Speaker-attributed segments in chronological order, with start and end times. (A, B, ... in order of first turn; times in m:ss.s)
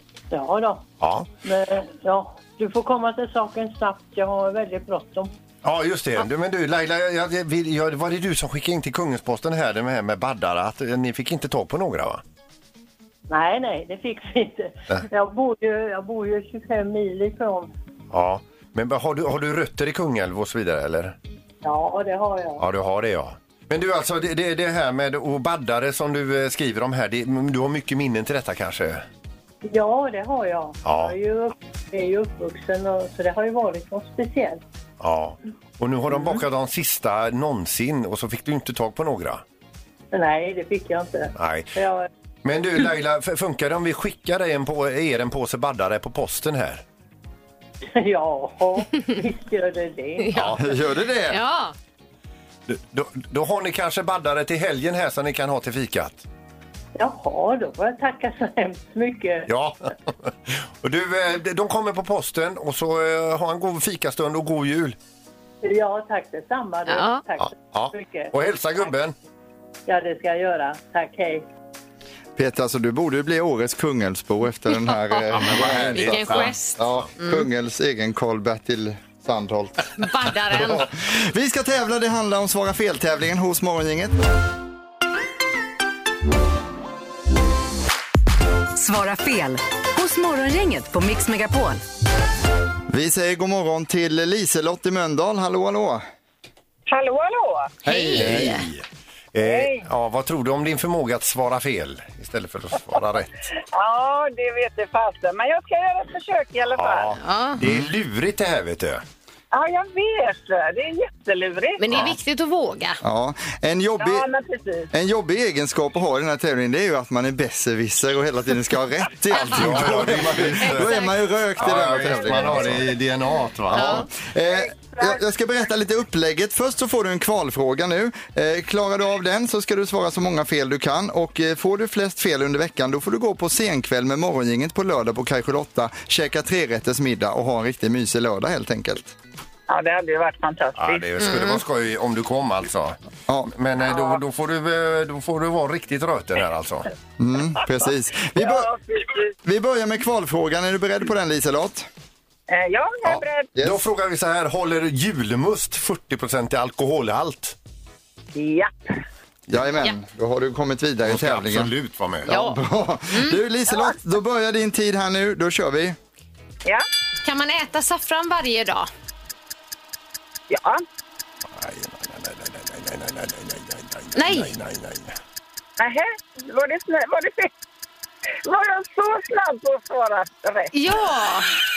0:00.3-0:00.8 A
0:01.0-0:01.3 B
0:01.4-0:05.3 A
0:05.6-0:12.2 B
0:13.3-0:17.7 A
0:18.1-0:21.2 B
0:21.6-0:22.7 A
0:22.6-0:29.0 B
0:29.6-0:34.6 A
0:30.8-0:31.2 B
0:35.0-0:39.4 B
0:36.1-0:36.4 A
0:40.1-0:42.1 A
0:41.4-0:41.7 B
0:42.4-0:46.8 B
0:47.9-0:50.5 A
0:50.2-0:51.8 C
0:50.5-0:51.4 D
0:52.7-0:56.2 B
0:57.0-0:59.5 A
0:59.5-1:05.0 B
1:05.6-1:08.3 A
1:06.9-1:07.2 C
1:07.4-1:09.2 B
1:09.9-1:11.5 A
1:12.4-1:24.2 D
1:14.7-1:17.5 C
1:15.3-1:17.1 B
1:20.0-1:20.9 C
1:28.8-1:31.8 E
1:32.9-1:36.0 D
1:36.9-1:37.6 F
1:37.8-1:38.7 C
1:37.9-1:43.3 B
1:37.9-1:38.5 D
1:39.4-1:39.8 F
1:43.7-1:47.2 F
1:46.7-1:49.0 B
1:47.2-1:47.6 C
1:49.5-1:52.0 F
1:51.8-1:53.0 C
1:53.0-1:54.3 D
1:54.0-1:54.9 F
1:54.9-2:03.0 D
1:59.3-1:59.9 C
1:59.4-2:00.9 B
2:00.6-2:01.2 C
2:01.6-2:04.1 B
2:02.3-2:02.7 C
2:03.7-2:19.2 D
2:03.7-2:04.1 C
2:04.5-2:05.2 F
2:19.7-2:21.1 F
2:20.8-2:23.0 B
2:21.2-2:21.6 C
2:23.3-2:23.5 D
2:23.5-2:26.9 B
2:23.8-2:24.2 F
2:27.2-2:28.7 D
2:28.4-2:29.3 F
2:29.4-2:31.9 D
2:32.5-2:33.5 F
2:33.1-2:37.6 B
2:33.1-2:33.8 D
2:38.3-2:38.9 F
2:39.5-2:41.7 D
2:41.0-2:42.3 B
2:42.2-2:46.0 D
2:42.3-2:43.4 C
2:47.2-2:48.9 C
2:50.5-2:50.8 F
2:51.5-2:55.1 B
2:54.2-2:54.5 C
2:55.8-2:57.5 F
2:58.4-3:00.7 F
3:00.7-3:01.5 C